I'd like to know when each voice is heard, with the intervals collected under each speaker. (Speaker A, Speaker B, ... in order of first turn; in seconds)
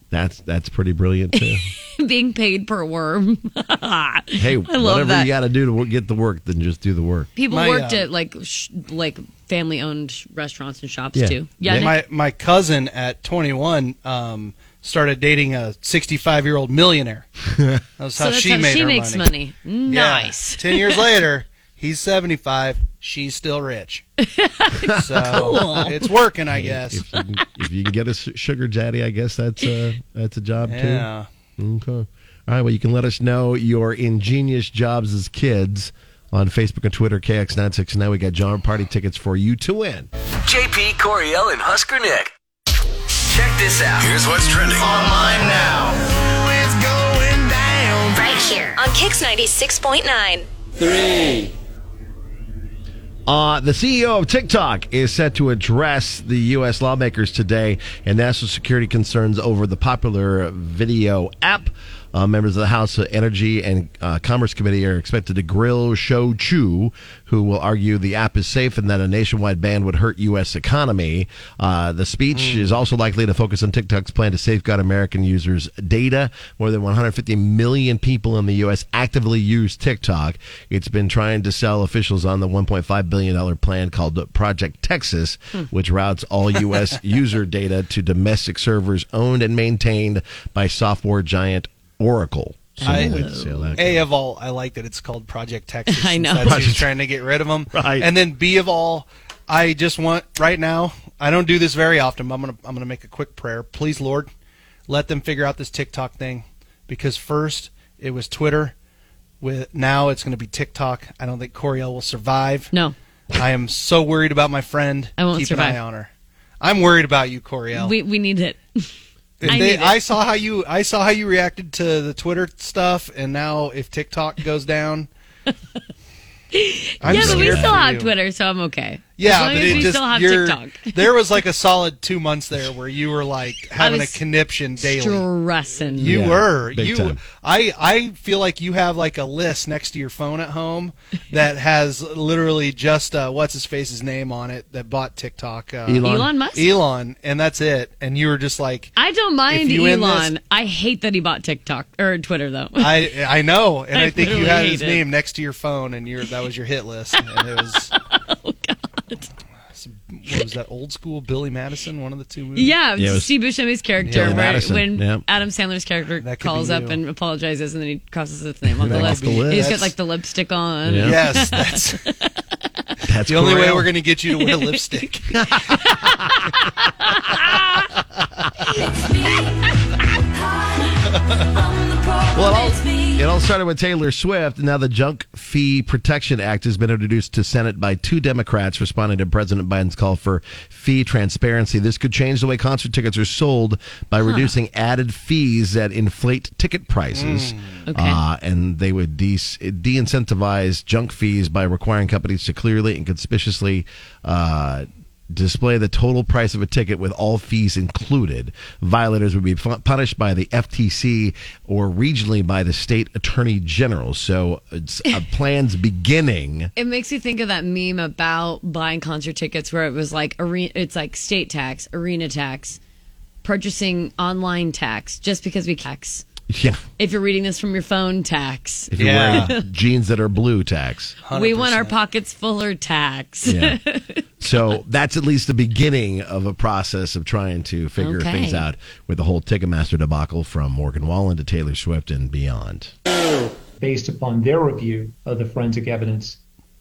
Speaker A: 0.1-1.7, 4.3-7.3, 11.1-11.9, 26.5-40.1, 44.7-48.2, 53.3-94.0, 96.5-96.9, 97.7-98.1, 127.0-127.8, 129.4-129.9, 136.0-137.2, 145.8-146.3, 162.9-163.3, 164.0-165.2, 168.8-169.8, 170.8-171.3, 173.1-173.9, 175.4-176.3, 182.3-216.7, 226.5-226.8, 228.9-231.2, 233.4-233.8, 234.4-242.9
Speaker B: 1.3-5.3, 7.3-12.0, 18.2-21.0, 24.2-26.1, 92.8-93.7, 95.9-96.7, 115.2-115.8, 117.7-118.9, 119.5-120.0, 126.5-131.0, 133.8-134.2, 134.8-136.2, 146.0-146.7, 149.0-153.1, 153.9-155.0, 158.1-159.3, 162.5-172.3, 174.3-175.1, 175.7-177.9, 178.6-183.2, 194.2-194.5, 197.9-198.2, 216.8-222.8, 223.4-226.2, 227.0-229.6, 231.3-234.6, 238.0-238.7
Speaker C: 7.5-8.1, 11.7-17.3, 18.0-19.3, 19.9-24.0, 24.9-27.0, 30.7-31.3, 72.3-72.7, 92.8-93.2, 93.8-104.3, 104.9-108.7, 109.4-112.7, 113.3-116.1, 116.6-117.9, 119.4-125.1, 127.0-128.1, 129.2-135.2, 135.9-148.9, 149.5-150.3, 152.8-157.9, 159.7-162.7, 164.0-164.5, 166.2-167.0, 168.8-169.9, 171.0-172.1, 173.3-175.4, 197.1-197.8, 229.0-229.5, 231.2-231.9
Speaker D: 40.4-42.3, 43.3-44.9
Speaker E: 48.1-50.5
Speaker F: 243.8-246.4